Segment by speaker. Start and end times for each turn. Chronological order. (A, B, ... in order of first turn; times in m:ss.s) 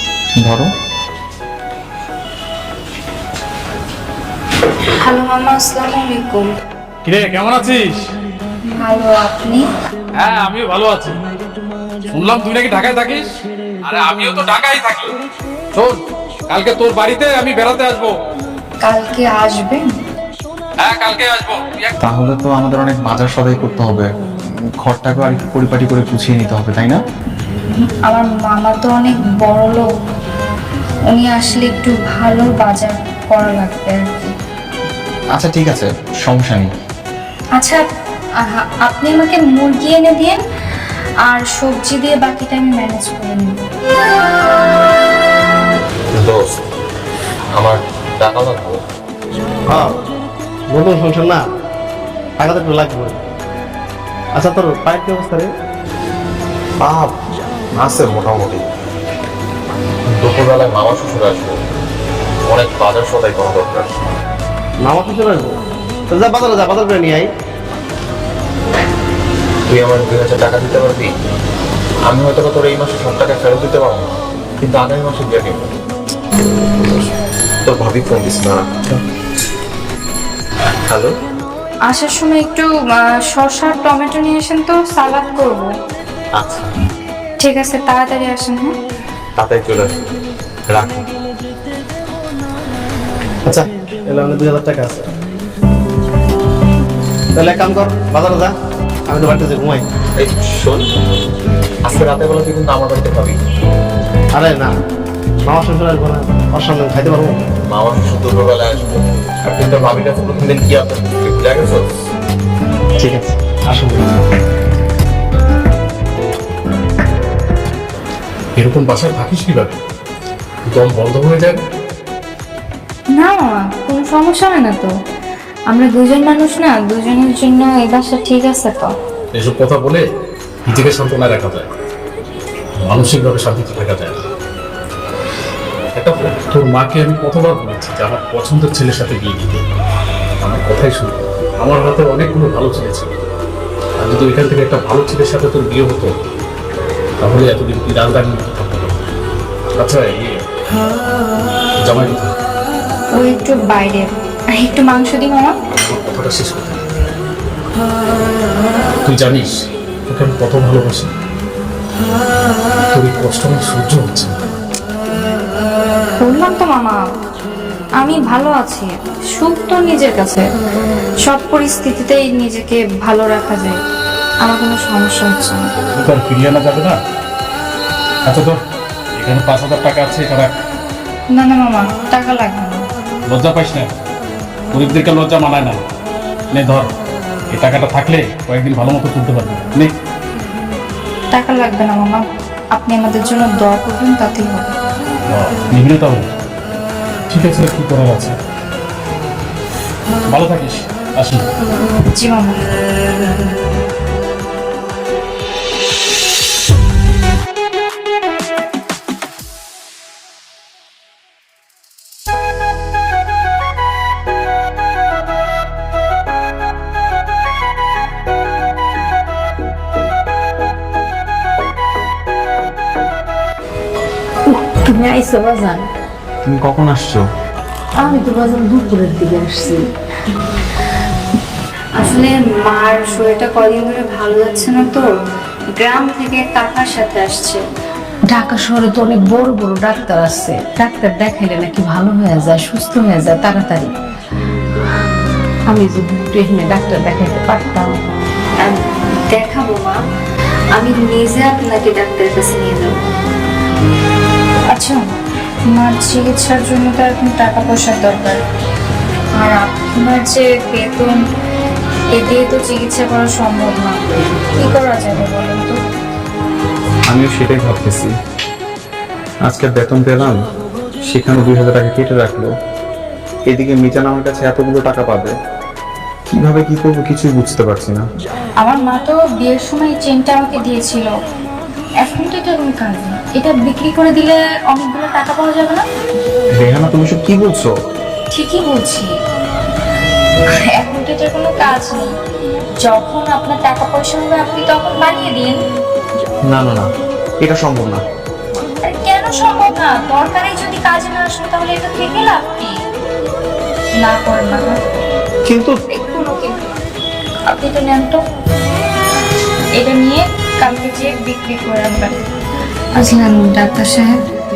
0:00.4-0:00.7 A
0:05.0-0:06.6 B
0:07.0-0:08.1 C
0:08.7-0:09.7 B
0:10.2-0:11.2 C
0:12.1-0:13.2 C
0:13.9-0:15.1 C
0:16.5-0:18.1 C
0:18.8-0:19.9 B
0:20.9-0:21.9 C
0:22.0-0:24.1 A
0:24.8-0:27.0 A
0:28.0-0:29.9 B
0:31.1-0:34.3 B
0:35.3-0:36.7 A
0:37.6-0:37.8 B
0:38.4-0:40.4 B
0:41.2-0:43.6 B
0:46.1-0:46.6 D
0:47.5-0:48.8 D
0:49.7-0:50.0 E
0:50.7-0:51.4 E
0:52.4-0:53.2 E
0:54.3-0:55.5 E
0:57.8-0:58.6 D
1:00.2-1:01.5 D
1:02.5-1:03.9 D
1:04.8-1:05.6 E
1:06.1-1:07.3 E
1:09.7-1:11.1 D
1:12.1-1:15.7 D
1:17.7-1:18.9 D
1:21.9-1:25.7 B
1:26.4-1:26.6 D
1:27.4-1:28.7 B
1:29.4-1:30.0 D
1:30.7-1:31.1 D
1:33.4-1:35.1 E
1:37.4-1:38.5 E
1:39.1-1:39.8 E
1:40.2-1:40.8 D
1:41.8-1:43.4 D
1:44.4-1:44.7 E
1:45.4-1:47.4 E
1:47.7-1:51.8 D
1:53.0-1:54.1 E
1:58.6-1:59.7 C
2:00.6-2:01.6 C
2:03.1-2:04.9 B
2:05.7-2:08.9 B
2:09.3-2:10.0 C
2:10.7-2:11.7 C
2:12.8-2:14.2 C
2:15.9-2:19.6 C
2:20.4-2:23.1 C
2:24.0-2:26.1 C
2:27.2-2:29.0 C
2:29.8-2:30.4 C
2:31.8-2:32.3 C
2:33.1-2:35.5 B
2:35.7-2:36.8 C
2:39.0-2:39.5 C
2:40.1-2:41.1 C
2:42.9-2:44.3 C
2:46.2-2:47.0 B
2:48.0-2:50.4 B
2:51.2-2:53.8 B
2:54.4-2:55.6 B
2:56.0-2:57.0 C
2:58.3-2:58.6 C
2:59.2-3:00.6 C
3:01.3-3:02.8 B
3:03.3-3:03.9 C
3:04.7-3:05.8 C
3:06.5-3:06.9 C
3:07.5-3:09.9 C
3:11.3-3:12.2 B
3:12.7-3:14.7 B
3:15.3-3:16.2 C
3:17.3-3:18.3 C
3:20.3-3:21.4 C
3:22.1-3:22.6 B
3:44.5-3:45.9 F
3:46.4-3:47.2 A
3:48.0-3:49.9 F
3:52.0-3:55.0 B
3:55.7-3:57.6 B
3:58.3-4:04.0 F
4:05.7-4:07.9 F
4:08.6-4:10.0 B
4:10.8-4:13.0 B
4:14.7-4:15.0 B
4:15.7-4:18.4 B
4:19.4-4:21.2 B
4:22.1-4:24.0 B
4:24.5-4:25.8 B
4:27.1-4:28.1 A
4:29.4-4:30.4 A
4:31.0-4:32.5 A
4:33.5-4:35.3 A
4:36.3-4:38.0 A
4:38.6-4:41.1 B
4:42.0-4:45.8 B
4:46.6-4:47.7 A
4:48.3-4:49.1 B
4:50.8-4:52.1 B
4:52.8-4:55.6 B
4:56.5-4:56.9 A
4:57.4-4:58.0 A
4:58.8-5:02.8 B
5:04.0-5:04.8 B
5:05.5-5:05.7 A
5:05.9-5:06.6 B
5:07.5-5:08.2 B
5:09.8-5:12.2 B
5:13.0-5:14.1 B